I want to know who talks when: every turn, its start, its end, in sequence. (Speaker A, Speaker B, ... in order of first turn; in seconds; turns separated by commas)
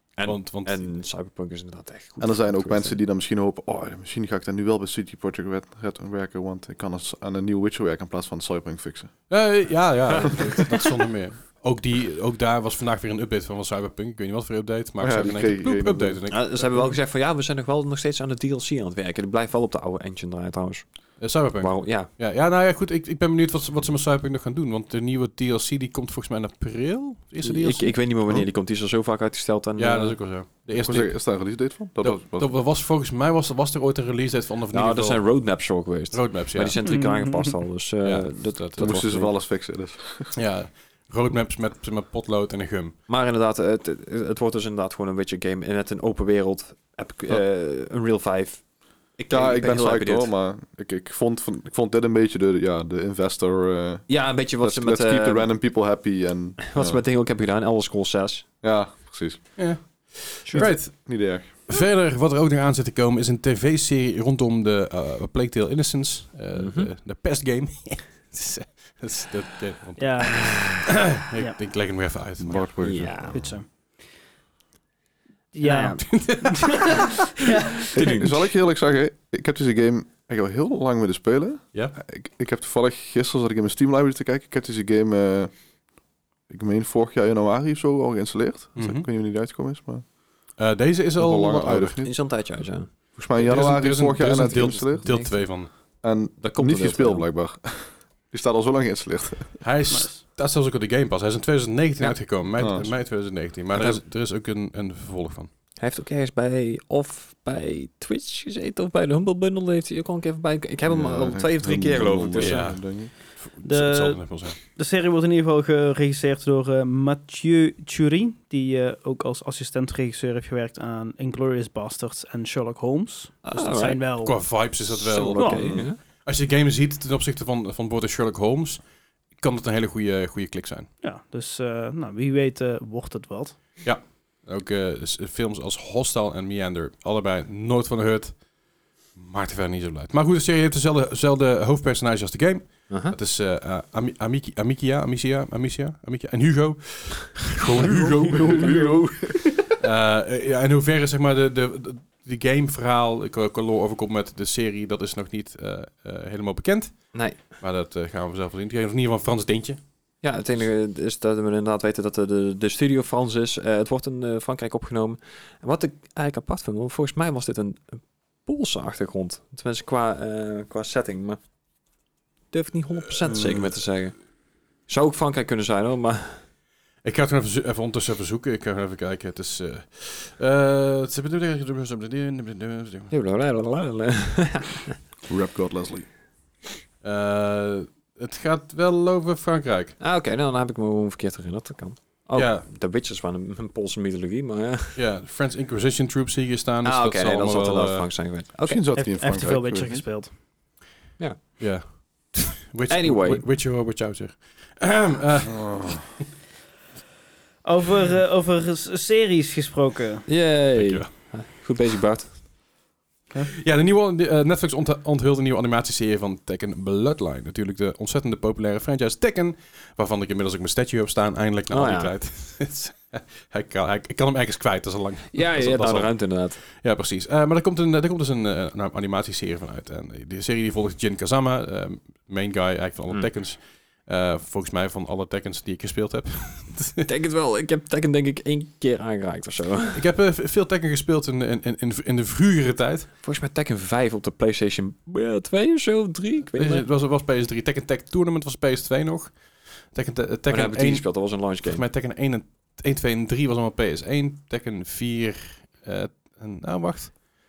Speaker A: 0.1-3.0, Speaker B: 0.2-0.9, Speaker C: 2.2-9.3, Speaker B: 9.3-16.6, Speaker A: 10.1-10.7, Speaker C: 15.0-16.2, Speaker A: 16.3-22.1, Speaker B: 21.2-28.0, Speaker A: 27.4-30.2, Speaker B: 29.8-35.3, Speaker C: 30.7-32.5, Speaker A: 34.7-39.3, Speaker B: 36.1-36.8, Speaker D: 36.8-37.6, Speaker B: 38.0-39.0, Speaker C: 38.8-40.3, Speaker B: 40.3-43.0, Speaker A: 43.1-48.6, Speaker A: 49.2-50.3, Speaker C: 49.3-57.0, Speaker A: 54.1-55.5, Speaker A: 56.6-58.4, Speaker C: 58.6-59.6, Speaker B: 59.5-72.7, Speaker C: 60.5-61.5, Speaker A: 66.5-66.9, Speaker D: 70.0-71.5, Speaker C: 72.4-73.6, Speaker A: 72.8-73.5, Speaker D: 73.3-73.7, Speaker D: 75.5-78.1, Speaker A: 75.6-76.7, Speaker B: 76.0-77.0, Speaker A: 77.9-78.5, Speaker C: 78.0-85.5, Speaker C: 86.5-90.0, Speaker B: 88.8-89.1, Speaker B: 90.6-92.1, Speaker C: 91.2-92.2, Speaker A: 92.0-92.9, Speaker C: 93.2-95.5, Speaker B: 93.4-95.7, Speaker A: 94.7-95.3, Speaker C: 96.0-99.6, Speaker A: 96.4-97.3, Speaker B: 99.6-105.5, Speaker D: 99.9-100.2, Speaker A: 102.0-102.9, Speaker C: 102.6-102.9, Speaker A: 103.7-104.0, Speaker A: 105.8-112.7, Speaker C: 110.8-113.1, Speaker B: 112.4-114.6, Speaker D: 113.6-124.5, Speaker A: 123.4-124.0, Speaker B: 124.2-130.9, Speaker A: 124.9-126.0, Speaker D: 125.4-125.8, Speaker D: 131.0-133.6, Speaker B: 133.8-138.4, Speaker B: 139.1-148.8, Speaker A: 142.9-143.2, Speaker C: 148.2-149.5, Speaker D: 148.3-149.4, Speaker B: 149.8-159.8, Speaker A: 157.1-157.4, Speaker A: 160.2-171.4, Speaker A: 172.5-174.2, Speaker A: 174.9-176.4, Speaker B: 177.0-183.1, Speaker A: 183.1-185.0, Speaker C: 185.3-186.1, Speaker B: 187.0-189.9, Speaker A: 190.0-195.0, Speaker B: 192.3-192.7, Speaker B: 194.9-198.1, Speaker A: 196.8-198.8, Speaker C: 198.7-200.0, Speaker D: 198.9-200.3, Speaker B: 201.6-206.1, Speaker A: 202.9-203.4, Speaker C: 205.5-206.1, Speaker D: 207.6-210.2, Speaker A: 210.3-212.4, Speaker B: 210.7-211.3, Speaker B: 213.4-237.1, Speaker A: 221.7-222.1, Speaker A: 225.3-226.6, Speaker A: 237.0-240.0, Speaker B: 239.9-243.1, Speaker A: 243.2-246.9, Speaker B: 246.5-257.2, Speaker A: 250.5-251.8